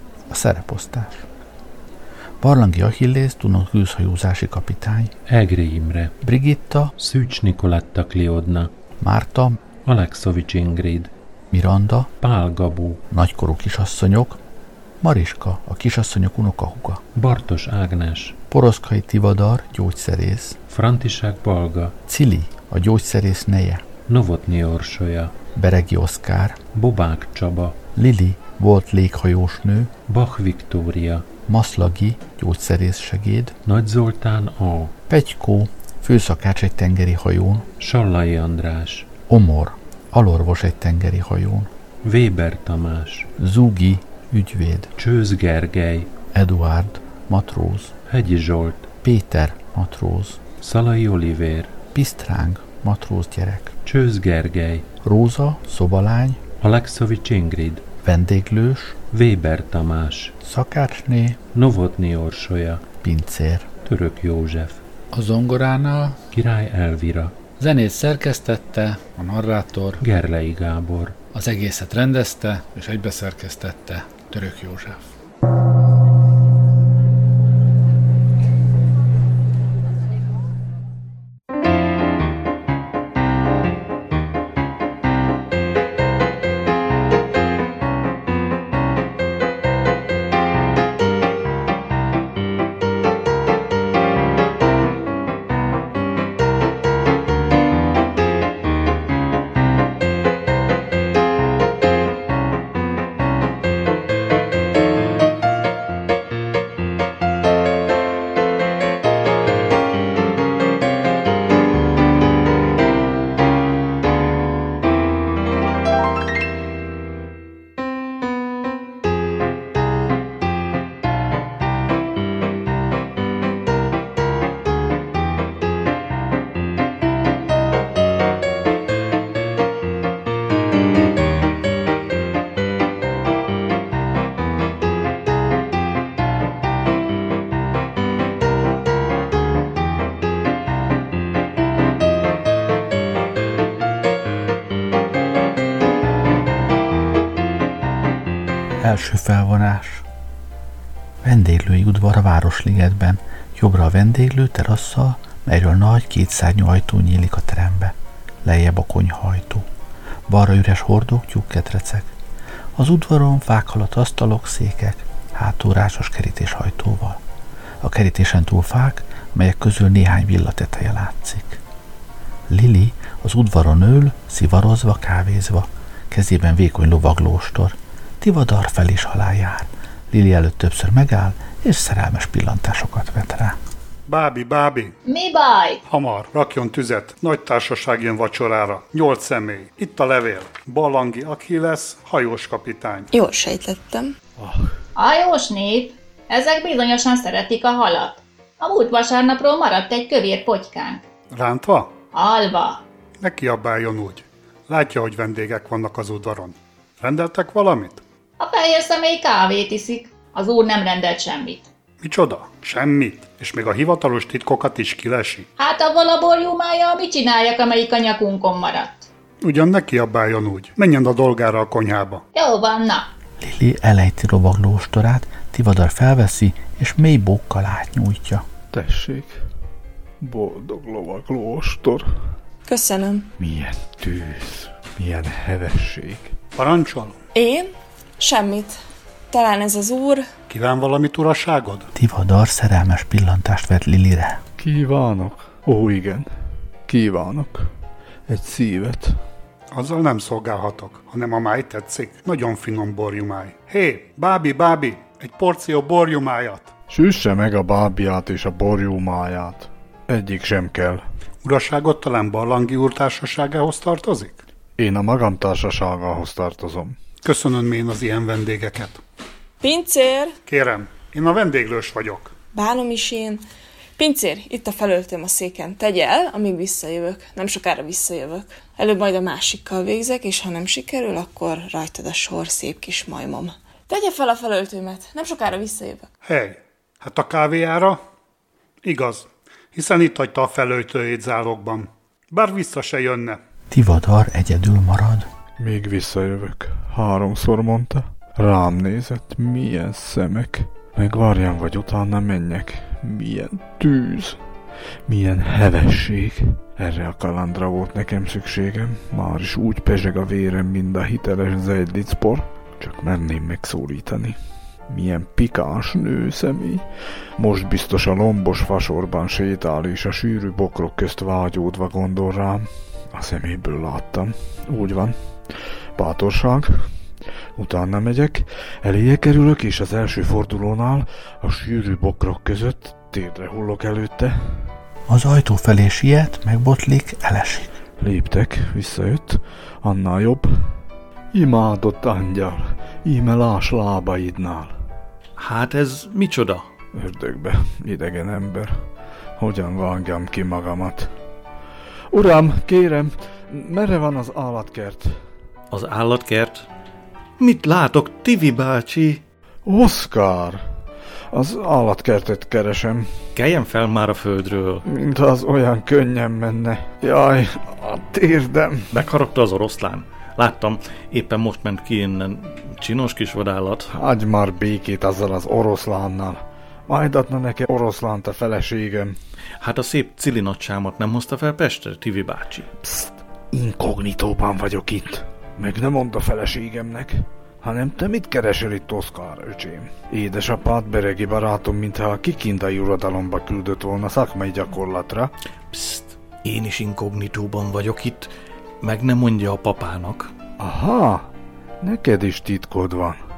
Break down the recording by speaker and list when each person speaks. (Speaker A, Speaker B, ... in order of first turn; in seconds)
Speaker A: 0.3-1.3, 2.4-5.1, 6.2-6.9, 9.0-9.6, 11.5-12.1, 13.1-14.4, 15.0-17.0, 18.5-20.6, 22.1-23.9, 25.5-26.6, 27.9-29.9, 31.5-33.5, 35.1-37.7, 39.3-41.7, 43.4-44.9, 46.3-48.0, 49.0-50.4, 51.9-53.8, 55.0-56.4, 58.0-59.0, 60.4-61.4, 63.0-63.7, 148.8-150.0, 151.2-159.7, 160.3-162.1, 162.8-167.2, 167.8-171.6, 172.5-183.6, 223.4-228.4, 241.9-244.4, 293.7-295.3, 335.1-337.7
Speaker B: 5.3-6.2, 7.0-8.7, 9.8-11.1, 12.2-13.0, 17.1-18.4, 20.7-22.0, 24.1-25.4, 26.7-27.9, 30.1-31.3, 33.6-35.0, 37.8-39.1, 42.0-43.3, 45.0-46.1, 48.1-48.9, 50.6-51.8, 53.8-54.9, 56.6-57.9, 59.1-60.3, 61.5-62.9, 63.8-64.8, 66.3-67.4, 70.0-71.2
Speaker C: 65.1-66.2, 67.6-70.0, 71.3-75.1
Speaker D: 184.1-184.9, 185.8-193.1, 201.3-201.9, 203.2-208.0, 212.0-215.4, 219.4-222.2, 236.6-237.2, 240.5-241.9, 249.7-256.7, 261.4-264.4, 267.2-269.0, 270.5-272.3, 286.2-288.0, 288.8-293.4
Speaker E: 185.1-185.8, 194.9-201.0, 202.1-202.8, 208.4-211.7, 215.6-219.1, 222.3-223.1
Speaker F: 193.1-194.1, 232.7-233.3, 237.3-237.7, 238.2-238.8, 239.3-240.2, 269.6-270.4, 272.5-273.4, 274.0-286.1
Speaker G: 194.4-194.7, 228.7-229.4, 230.2-232.1, 233.4-236.3, 244.6-246.3, 246.9-247.7, 248.3-249.2, 256.9-261.0, 264.8-267.0, 295.6-304.4, 305.1-314.4, 314.9-316.8, 317.4-325.1, 326.0-326.9, 327.6-334.6, 338.0-340.7, 341.3-344.8, 346.9-348.8, 349.4-351.1, 352.1-355.1, 359.6-360.6, 361.3-363.1, 364.9-368.9, 373.9-379.1, 382.8-395.3, 400.6-401.3, 401.8-403.2
Speaker H: 345.4-346.6, 355.7-356.6, 357.4-359.2, 363.4-364.8, 368.9-373.9, 379.6-382.7, 395.7-398.3, 398.8-400.3